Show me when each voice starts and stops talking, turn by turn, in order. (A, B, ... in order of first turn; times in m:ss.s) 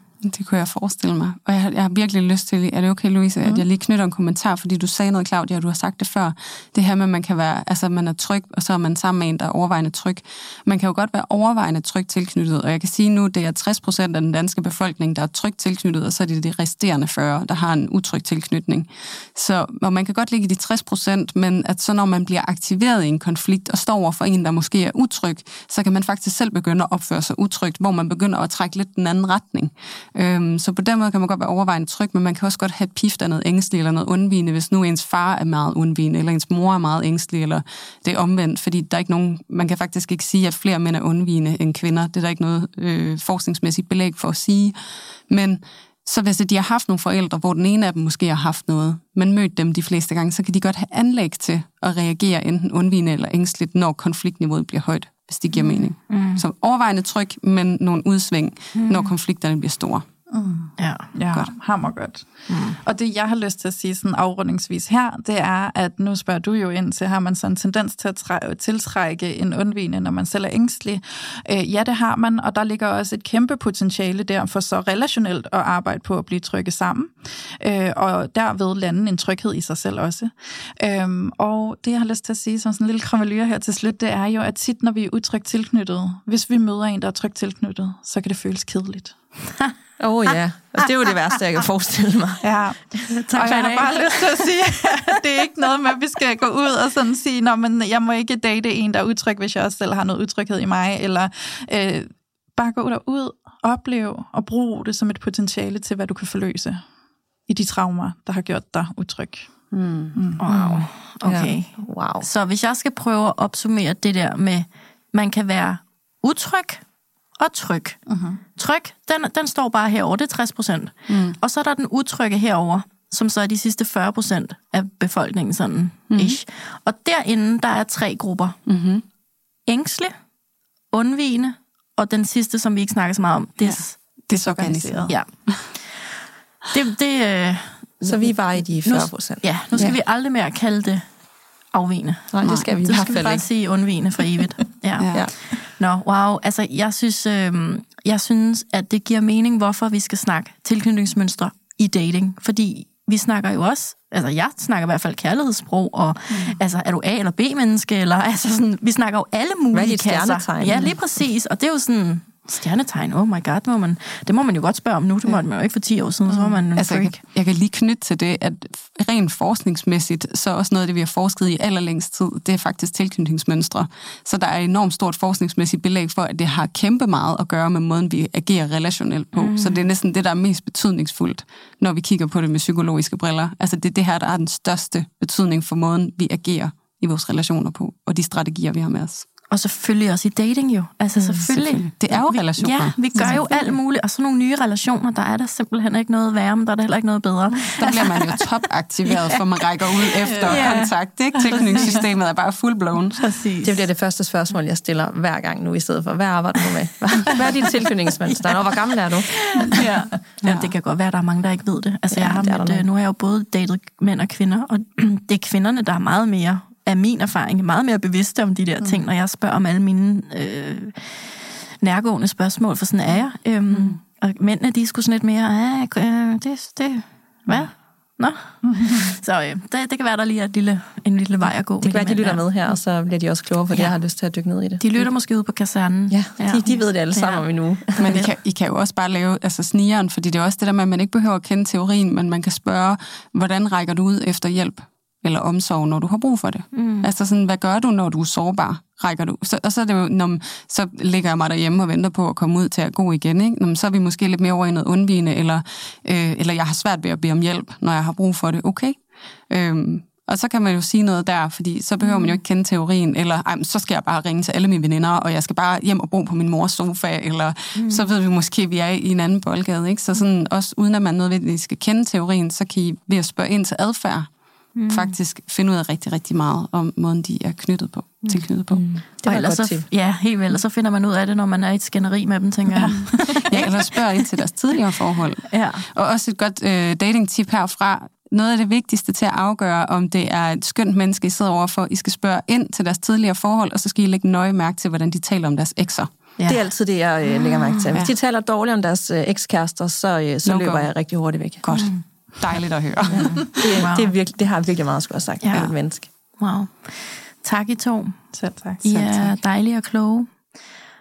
0:00.2-0:44.8 A
0:45.3-1:00.0 A
0:56.1-0:56.4 B
0:58.7-0:59.1 B
1:00.3-1:29.2 C
1:00.8-1:01.1 B
1:02.5-1:02.8 B
1:30.0-1:32.4 D
1:32.4-1:46.8 C
1:33.1-1:34.4 B
1:47.5-1:49.5 C
1:49.7-1:50.2 A
1:50.2-1:50.4 C
1:50.4-1:56.8 B
1:50.5-1:52.3 D
1:57.4-1:58.0 B
1:58.1-1:58.4 C
1:58.6-2:08.6 B
2:01.1-2:01.4 A
2:06.1-2:06.4 A
2:08.7-2:09.0 A
2:09.7-2:10.2 B
2:10.9-2:14.0 B
2:13.6-2:15.7 A
2:14.3-2:15.2 C
2:15.1-2:16.1 B
2:16.7-2:21.1 B
2:18.0-2:20.0 D
2:21.7-2:47.2 B
2:22.3-2:23.5 D
2:22.4-2:23.1 A
2:25.0-2:25.3 A
2:36.3-2:36.6 C
2:39.7-2:41.0 D
2:46.3-3:09.3 A
2:59.3-2:59.9 B
3:09.5-3:18.4 B
3:11.4-3:13.5 A
3:13.2-3:13.5 C
3:17.8-3:23.3 A
3:19.1-3:22.0 B
3:23.2-3:23.9 B
3:23.6-3:29.8 D
3:28.2-3:52.5 B
3:30.4-3:30.7 A
3:32.1-3:32.9 D
3:48.6-3:49.1 C
3:51.8-3:55.1 D
3:54.8-3:58.3 B
3:56.1-3:58.2 D
3:58.0-4:34.3 A
4:06.7-4:07.1 B
4:22.0-4:22.4 B
4:27.8-4:28.0 B
4:34.8-4:35.2 B
4:34.8-4:38.8 A
4:38.7-4:39.9 D
4:39.2-4:44.3 B
4:42.7-4:43.3 C
4:43.5-4:56.1 A
4:45.5-4:45.9 B
4:56.4-4:56.7 B
4:56.5-5:01.7 D
4:57.3-4:57.9 B
5:00.4-5:00.9 A
5:01.6-5:03.6 A
5:01.7-5:02.0 B
5:03.1-5:06.1 D
5:03.1-5:04.1 B
5:05.4-5:05.7 B
5:06.4-5:10.5 B
5:08.3-5:09.3 C